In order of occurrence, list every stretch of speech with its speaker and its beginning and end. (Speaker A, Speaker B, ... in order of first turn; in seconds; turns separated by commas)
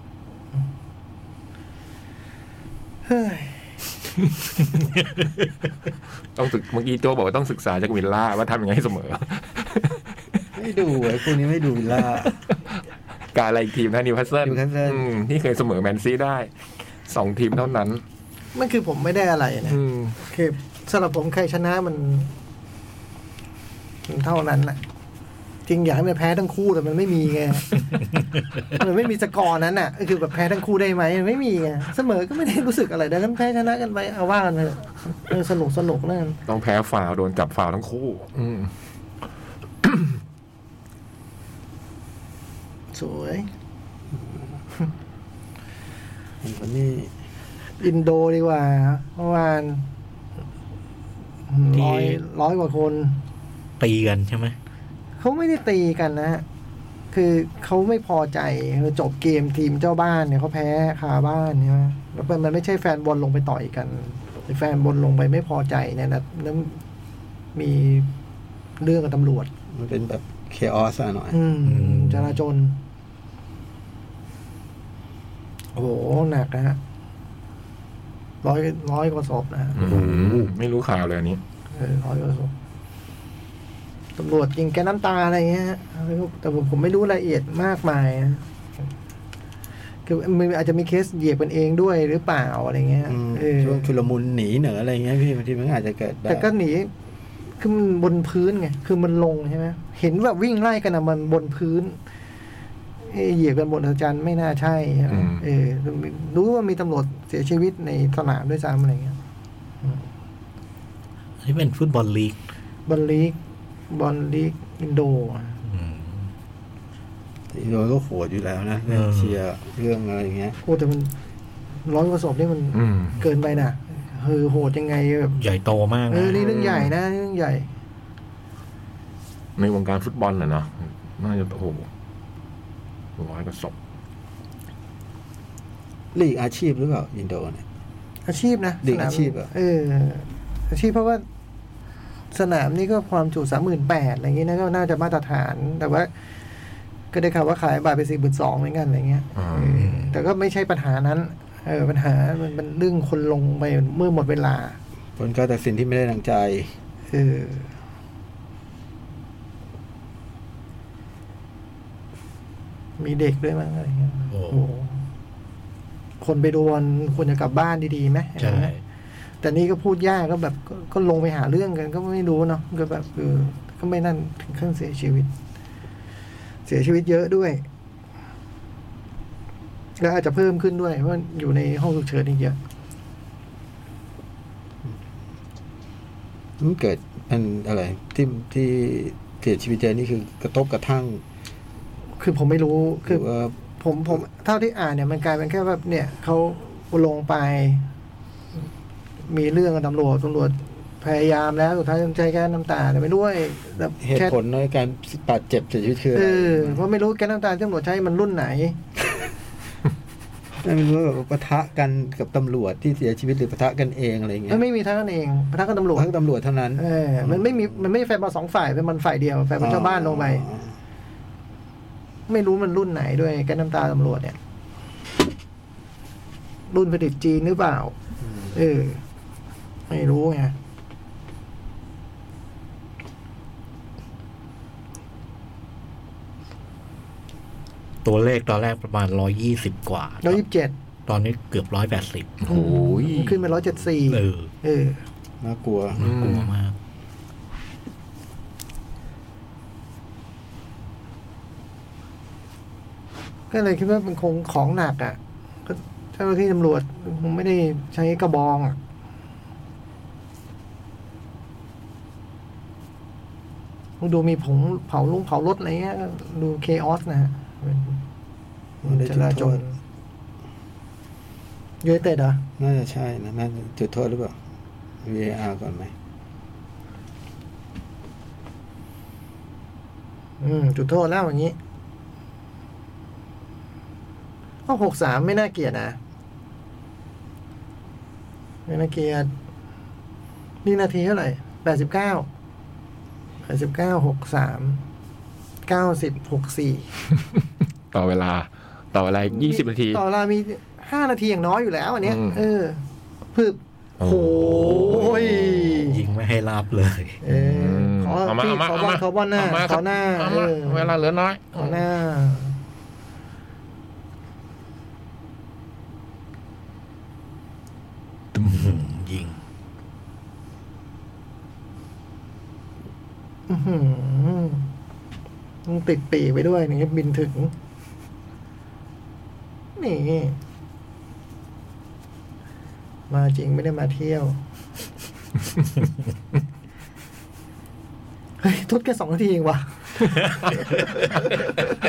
Speaker A: 3.0-3.7, Speaker B: 6.3-10.0, Speaker C: 10.5-12.4, Speaker B: 13.3-16.5, Speaker C: 14.4-15.1, Speaker B: 17.1-18.0, Speaker A: 18.5-22.3, Speaker B: 19.7-20.1, Speaker A: 24.1-24.8, Speaker A: 25.6-27.8, Speaker A: 28.7-36.4, Speaker B: 36.5-38.7, Speaker B: 39.8-40.1, Speaker A: 42.9-43.5, Speaker C: 46.4-47.1, Speaker A: 47.8-49.8, Speaker A: 51.5-53.2, Speaker D: 51.7-52.2, Speaker D: 53.8-54.5, Speaker A: 55.2-56.4, Speaker A: 57.1-66.8, Speaker A: 67.5-68.1, Speaker A: 68.8-69.5, Speaker C: 69.7-71.4, Speaker A: 71.3-72.8, Speaker D: 71.6-72.4, Speaker A: 75.7-76.8, Speaker A: 78.4-79.8, Speaker B: 79.8-81.4, Speaker D: 79.8-80.5, Speaker A: 81.7-82.5, Speaker A: 84.2-88.4, Speaker A: 90.0-93.8, Speaker C: 93.0-96.5, Speaker A: 96.3-96.9, Speaker A: 97.6-102.0, Speaker A: 103.1-109.2, Speaker B: 105.1-105.4, Speaker D: 111.4-112.4, Speaker A: 112.9-113.3, Speaker A: 113.9-115.6, Speaker D: 115.6-116.3, Speaker C: 117.5-120.6, Speaker D: 118.9-119.3, Speaker A: 120.6-121.1, Speaker A: 121.8-125.4, Speaker B: 122.7-123.1, Speaker D: 125.4-126.7, Speaker A: 126.1-127.7, Speaker B: 126.3-126.9, Speaker B: 129.6-131.9, Speaker B: 133.2-133.7, Speaker C: 136.1-137.6, Speaker A: 138.3-141.2, Speaker C: 138.8-139.5, Speaker A: 142.3-146.1, Speaker A: 147.1-154.8, Speaker B: 149.3-149.8, Speaker D: 149.8-150.1, Speaker C: 155.2-156.7, Speaker A: 157.1-157.7, Speaker A: 163.0-165.0, Speaker D: 164.3-164.6, Speaker A: 166.2-168.7, Speaker D: 168.4-168.8, Speaker A: 169.4-175.3, Speaker A: 176.7-177.6, Speaker A: 180.0-182.6, Speaker C: 186.6-191.2, Speaker A: 192.2-193.2, Speaker C: 193.1-193.5, Speaker A: 193.8-197.8, Speaker A: 199.2-204.3, Speaker C: 204.0-206.8, Speaker A: 206.1-208.8, Speaker C: 210.6-214.6, Speaker A: 214.5-216.1, Speaker C: 215.9-217.7, Speaker A: 216.8-220.5, Speaker C: 219.6-220.7, Speaker A: 222.3-224.4, Speaker A: 226.7-227.9, Speaker C: 228.2-228.5, Speaker A: 228.5-229.0, Speaker A: 229.9-230.5, Speaker D: 238.0-240.4, Speaker A: 240.2-240.7, Speaker D: 241.1-242.4, Speaker B: 242.4-243.4, Speaker A: 242.5-245.0, Speaker D: 244.1-244.5, Speaker C: 245.4-246.1, Speaker D: 246.0-246.8, Speaker B: 246.0-246.5, Speaker A: 253.5-258.8, Speaker A: 264.0-268.0, Speaker A: 268.8-269.8, Speaker C: 268.8-269.6, Speaker A: 271.8-272.4, Speaker C: 272.6-274.4, Speaker C: 275.0-275.9, Speaker A: 280.4-281.6, Speaker A: 284.7-286.0, Speaker A: 288.7-289.3, Speaker A: 290.6-292.3, Speaker A: 293.4-294.8, Speaker A: 295.6-296.9, Speaker B: 297.9-300.0, Speaker A: 299.3-302.8, Speaker B: 302.0-302.4, Speaker A: 303.3-306.0, Speaker B: 304.0-305.8, Speaker D: 304.5-305.1, Speaker D: 305.8-307.2, Speaker A: 307.2-310.9, Speaker B: 307.3-311.8, Speaker A: 311.5-312.5, Speaker D: 318.3-319.4, Speaker A: 323.5-324.7, Speaker A: 325.6-327.5, Speaker A: 329.8-330.4, Speaker A: 333.1-334.4, Speaker A: 338.4-341.3